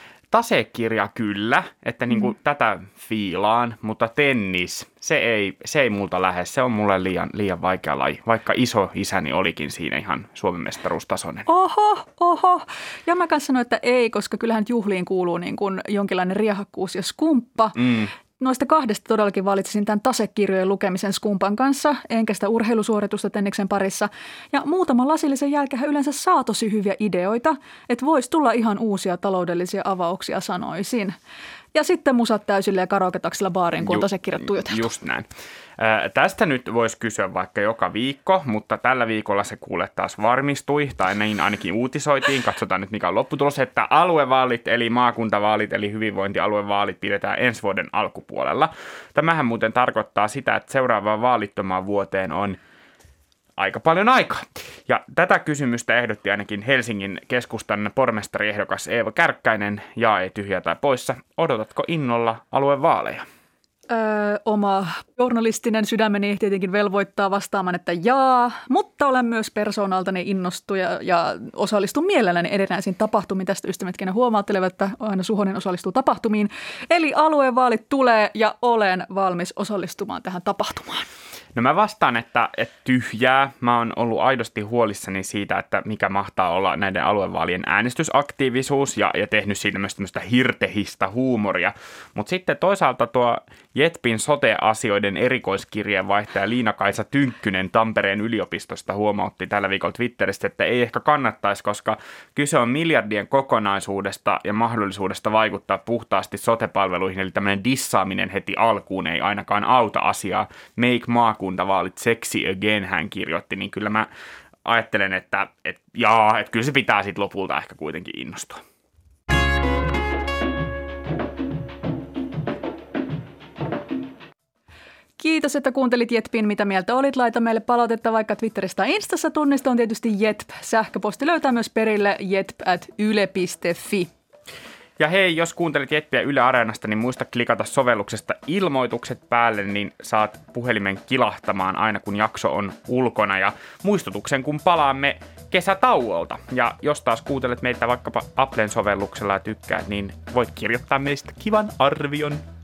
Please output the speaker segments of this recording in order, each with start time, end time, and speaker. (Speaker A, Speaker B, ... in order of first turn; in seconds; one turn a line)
Speaker A: 0.3-11.4
Speaker B: 11.5-17.8
Speaker A: 17.8-18.1
Speaker B: 18.4-31.2
Speaker B: 31.8-34.8
Speaker A: 34.6-35.3
Speaker A: 35.8-52.6
Speaker A: 53.6-63.2
Speaker B: 63.9-81.1
Speaker A: 81.5-114.1
Speaker A: 114.7-118.6
Speaker B: 125.2-134.1
Speaker A: 135.0-152.4